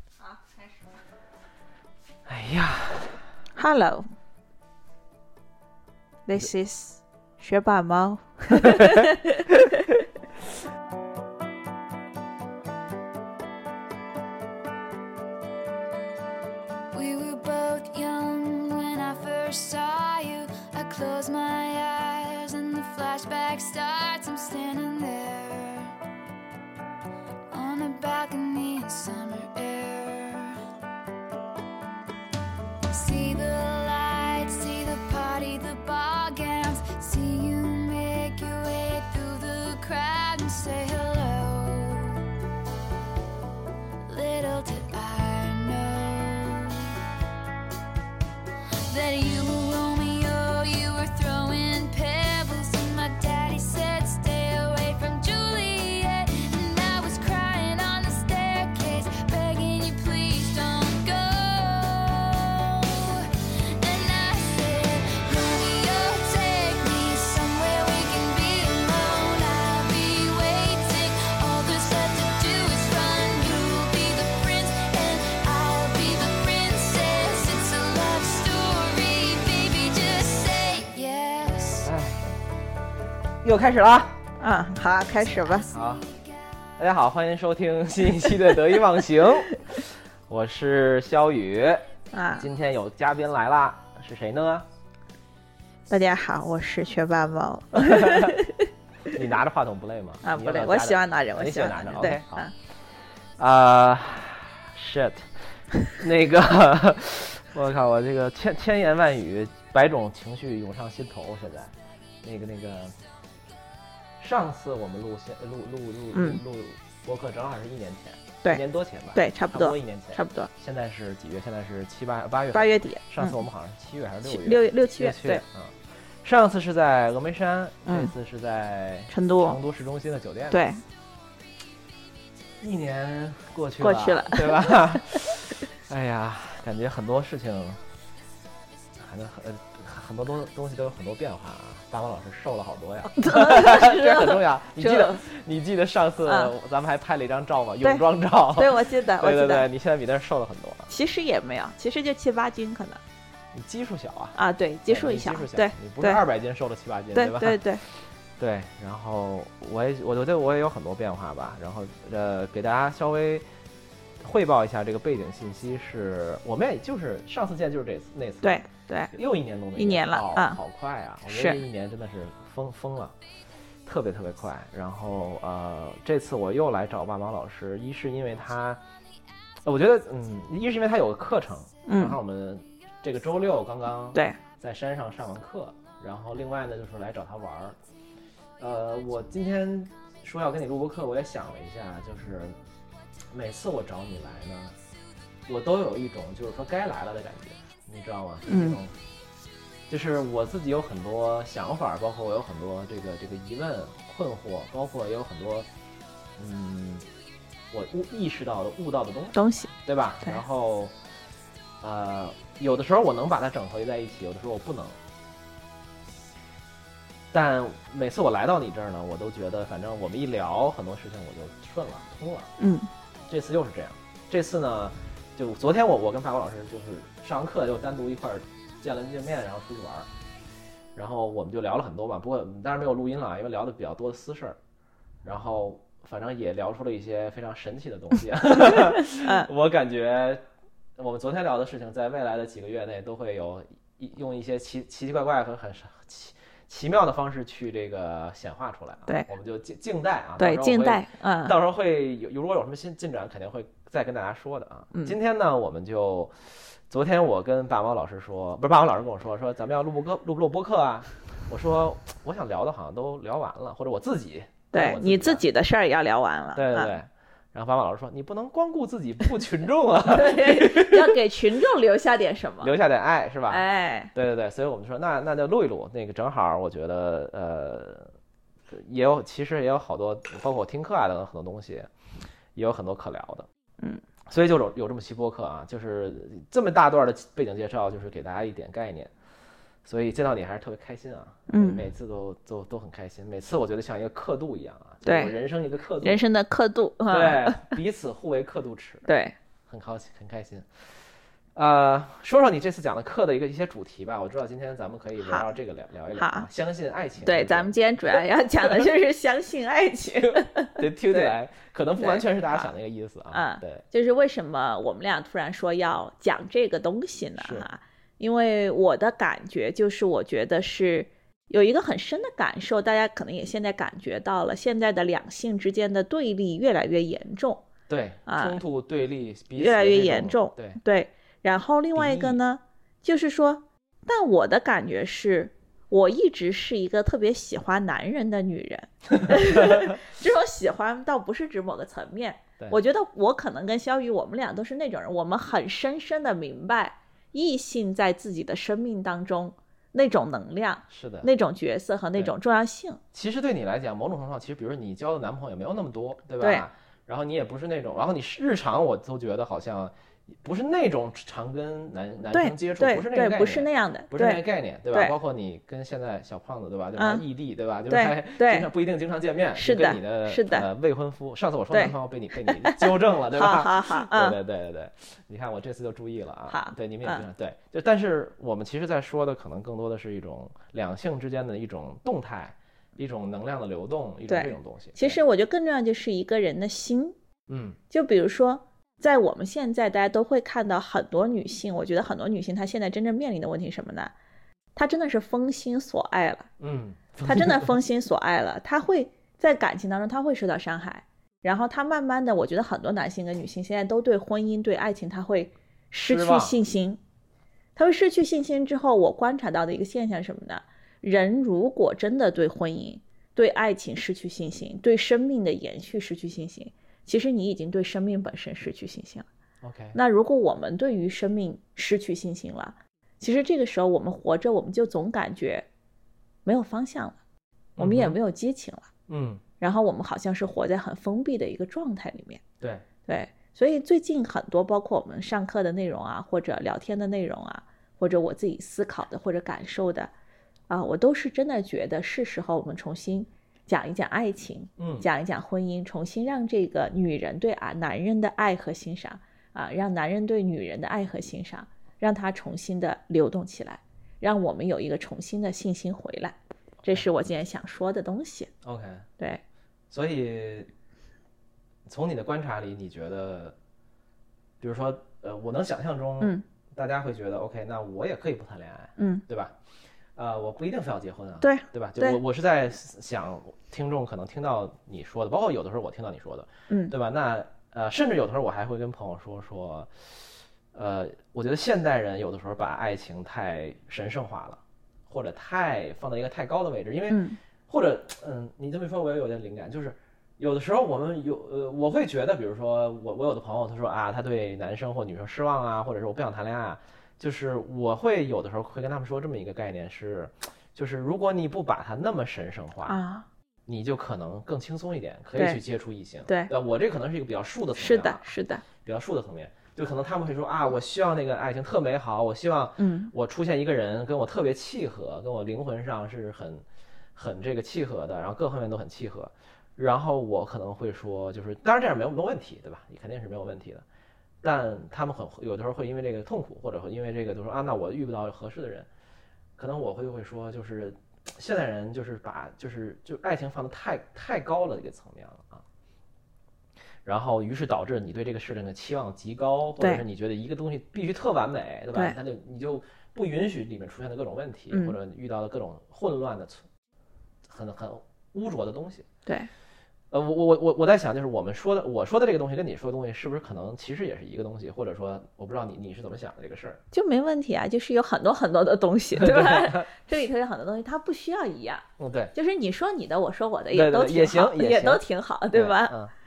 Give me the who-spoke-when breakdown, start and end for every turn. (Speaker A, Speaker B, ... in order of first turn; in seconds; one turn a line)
Speaker A: 0.2-0.8
Speaker B: 2.3-3.3
Speaker A: 3.5-4.1
Speaker A: 6.3-9.9
Speaker B: 8.6-9.0
Speaker C: 16.9-25.9
Speaker C: 27.5-30.6
Speaker C: 32.9-42.2
Speaker C: 44.0-47.0
Speaker C: 48.9-81.9
Speaker B: 81.8-82.3
Speaker B: 83.4-84.2
Speaker A: 84.4-85.7
Speaker C: 85.3-86.3
Speaker B: 85.7-86.0
Speaker B: 86.8-91.9
Speaker A: 92.1-92.5
Speaker B: 92.4-94.7
Speaker A: 95.9-98.7
Speaker B: 97.7-98.4
Speaker B: 99.1-102.5
Speaker A: 100.2-102.5
Speaker B: 103.4-105.2
Speaker B: 105.9-113.0
Speaker B: 114.2-130.6
Speaker A: 116.1-116.4
Speaker A: 119.1-120.5
Speaker A: 122.5-123.4
Speaker A: 124.2-125.4
Speaker A: 127.9-128.1
Speaker A: 129.1-129.6
Speaker A: 130.5-130.8
Speaker B: 132.6-137.8
Speaker A: 133.8-135.2
Speaker B: 139.0-150.9
Speaker A: 143.1-145.2
Speaker A: 146.2-146.5
Speaker A: 147.8-149.6
Speaker A: 150.9-153.0
Speaker B: 153.5-163.4
Speaker A: 154.3-156.2
Speaker A: 157.1-157.8
Speaker B: 164.2-173.1
Speaker A: 168.4-169.1
Speaker A: 169.8-170.6
Speaker A: 171.2-171.6
Speaker B: 173.8-178.8
Speaker B: 179.6-187.8
Speaker A: 181.8-182.2
Speaker A: 184.1-184.4
Speaker B: 188.6-192.6
Speaker B: 193.3-194.7
Speaker B: 195.5-198.9
Speaker A: 198.5-198.8
Speaker B: 199.9-205.7
Speaker B: 206.4-207.1
Speaker B: 207.7-210.9
Speaker A: 209.3-210.4
Speaker B: 211.8-215.0
Speaker B: 217.3-222.5
Speaker A: 222.6-222.9
Speaker B: 223.3-230.1
Speaker B: 230.9-234.6
Speaker B: 235.2-240.4
Speaker A: 239.2-239.5
Speaker B: 241.0-265.4
Speaker A: 250.4-251.6
Speaker A: 264.7-266.9
Speaker B: 266.6-271.1
Speaker A: 270.1-272.7
Speaker B: 272.6-278.1
Speaker A: 273.5-274.1
Speaker B: 278.7-281.9
Speaker B: 282.6-283.5
Speaker B: 284.3-289.1
Speaker B: 289.9-296.2
Speaker A: 291.5-291.8
Speaker A: 295.0-295.3
Speaker A: 296.0-297.8
Speaker B: 297.1-299.1
Speaker A: 299.1-299.4
Speaker B: 299.7-300.7
Speaker B: 301.6-307.7
Speaker A: 305.2-305.5
Speaker A: 306.1-306.5
Speaker A: 307.2-311.3
Speaker B: 310.2-313.8
Speaker A: 312.0-312.7
Speaker A: 313.3-327.7
Speaker B: 317.4-317.7
Speaker B: 327.9-330.8
Speaker A: 328.2-328.6
Speaker A: 329.6-353.0
Speaker B: 331.9-332.4
Speaker B: 350.9-351.3
Speaker B: 353.1-385.2
Speaker A: 356.4-356.7
Speaker A: 362.3-364.4
Speaker A: 367.0-367.2
Speaker A: 367.9-368.7
Speaker A: 369.6-370.7
Speaker A: 372.6-374.4
Speaker A: 376.5-377.2
Speaker A: 384.3-387.2
Speaker B: 387.5-387.8
Speaker A: 387.9-394.1
Speaker A: 394.8-396.5
Speaker B: 396.6-397.8
Speaker A: 397.2-407.0
Speaker B: 406.1-406.6
Speaker A: 407.8-419.2
Speaker B: 419.6-420.0
Speaker A: 419.9-425.7
Speaker A: 426.4-427.2
Speaker B: 427.8-428.2
Speaker A: 427.8-428.9
Speaker B: 429.1-429.4
Speaker A: 429.6-432.4
Speaker A: 433.1-440.1
Speaker A: 440.7-458.5
Speaker B: 444.8-445.1
Speaker B: 458.6-459.1
Speaker B: 459.9-460.7
Speaker B: 461.9-463.6
Speaker B: 464.6-469.5
Speaker A: 469.0-469.2
Speaker B: 470.2-479.9
Speaker A: 471.4-472.2
Speaker B: 480.7-503.0
Speaker A: 487.1-487.4
Speaker A: 502.9-503.2
Speaker B: 503.7-516.6
Speaker A: 507.8-508.6
Speaker A: 512.8-513.1
Speaker B: 517.1-523.8
Speaker B: 524.4-528.9
Speaker B: 529.6-535.6
Speaker B: 537.0-546.6
Speaker A: 539.8-540.0
Speaker A: 544.7-545.0
Speaker B: 547.5-549.1
Speaker B: 550.1-556.8
Speaker A: 556.9-566.0
Speaker B: 559.1-559.9
Speaker B: 562.0-562.3
Speaker B: 563.7-566.1